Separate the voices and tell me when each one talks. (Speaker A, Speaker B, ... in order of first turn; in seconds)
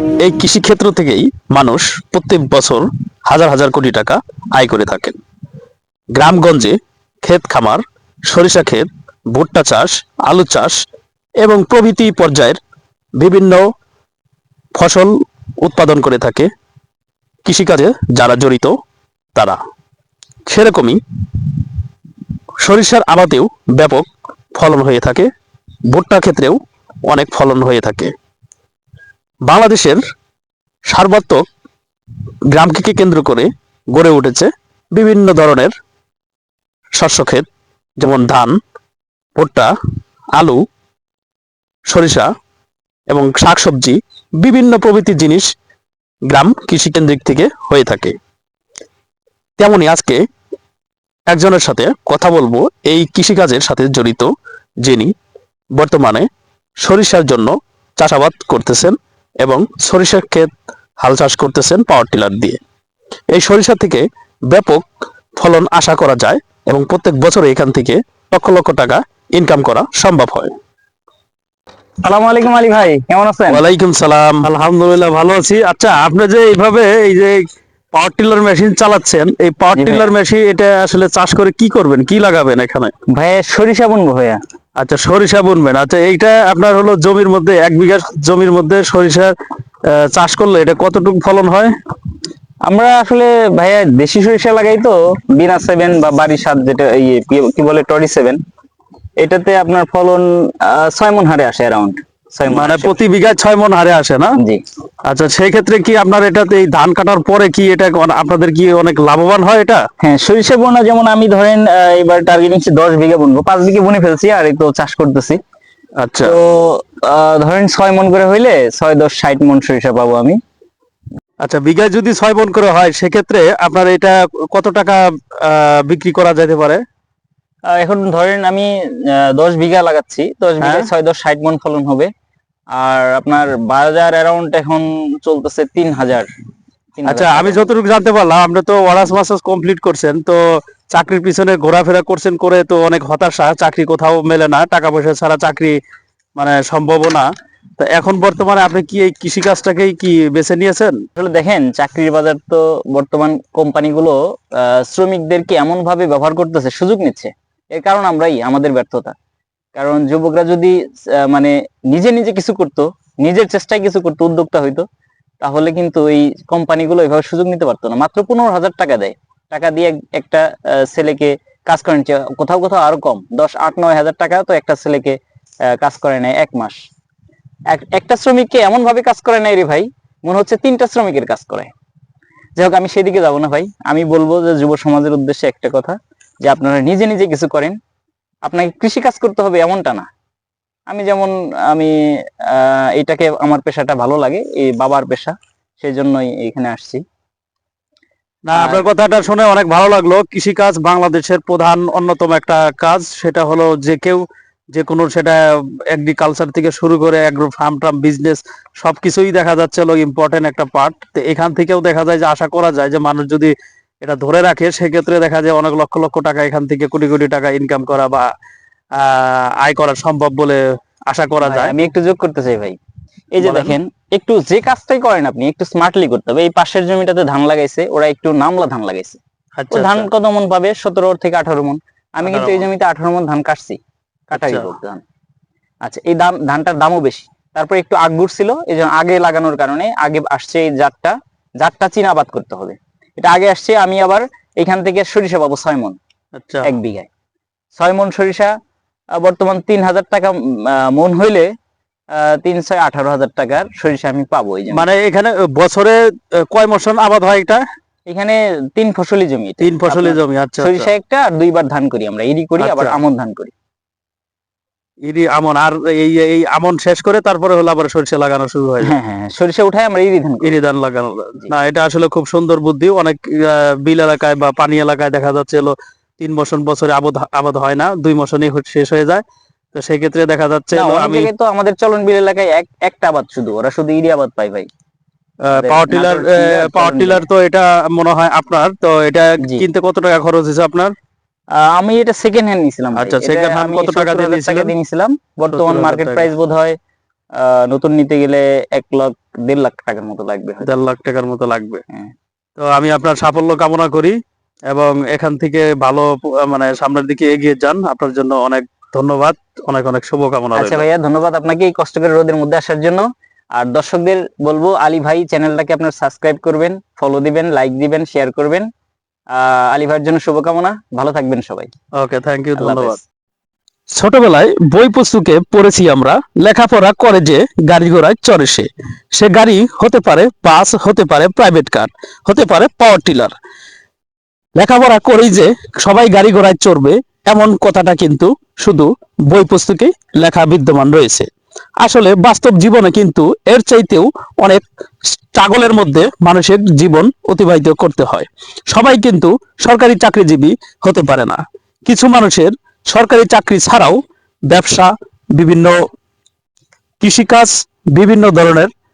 Speaker A: 0.2-5.2, 6.1-10.7, 11.4-12.6, 13.2-13.7, 14.7-16.5, 17.4-18.7, 19.3-19.6, 20.4-21.0, 22.6-25.3, 25.9-28.1, 29.4-30.0, 30.9-31.4, 32.5-35.7, 36.9-37.5, 38.0-38.5, 39.4-39.7, 40.3-40.6, 41.9-42.3, 43.1-45.5, 46.3-48.1, 49.6-50.2, 51.3-54.3, 54.8-55.1, 55.7-56.2, 56.8-62.6, 63.3-64.8, 65.4-70.5, 73.5-77.4, 77.9-82.9, 84.8-89.3, 89.9-91.7, 102.5-104.4, 105.0-109.8, 116.0-116.3, 121.4-126.8, 130.6-130.9, 137.0-145.8, 146.3-147.2, 147.8-151.0, 198.4-218.3, 218.9-221.8, 223.4-223.8, 229.6-230.1, 232.2-232.7, 234.3-234.8, 246.3-246.7, 254.7-257.6, 259.6-260.9, 262.6-263.0, 265.0-268.9, 270.4-281.3, 285.4-290.9, 292.9-294.7, 295.5-296.3, 300.6-301.8, 302.6-304.1, 304.7-310.9, 322.0-323.0, 323.9-333.3, 334.6-341.3, 341.8-355.8, 357.0-358.7
Speaker B: 72.0-73.6, 79.7-80.1, 83.1-84.4, 92.7-98.4, 99.2-103.0, 104.4-104.6, 110.0-115.4, 116.2-120.4, 127.7-132.1, 132.7-136.3, 137.0-137.7, 151.2-159.1, 159.7-164.9, 165.4-175.2, 175.8-176.8, 177.7-181.7, 182.5-187.7, 188.4-190.1, 190.9-197.0, 198.5-198.9, 221.4-222.8, 223.3-233.8, 234.3-235.0, 235.8-246.0, 246.6-247.1, 247.8-248.5, 249.2-251.5, 252.1-254.8, 258.1-263.5, 268.8-270.6, 280.7-284.7, 285.5-287.2, 289.4-289.7, 291.5-296.7, 297.3-300.7, 310.5-318.7, 319.3-321.7, 322.6-323.0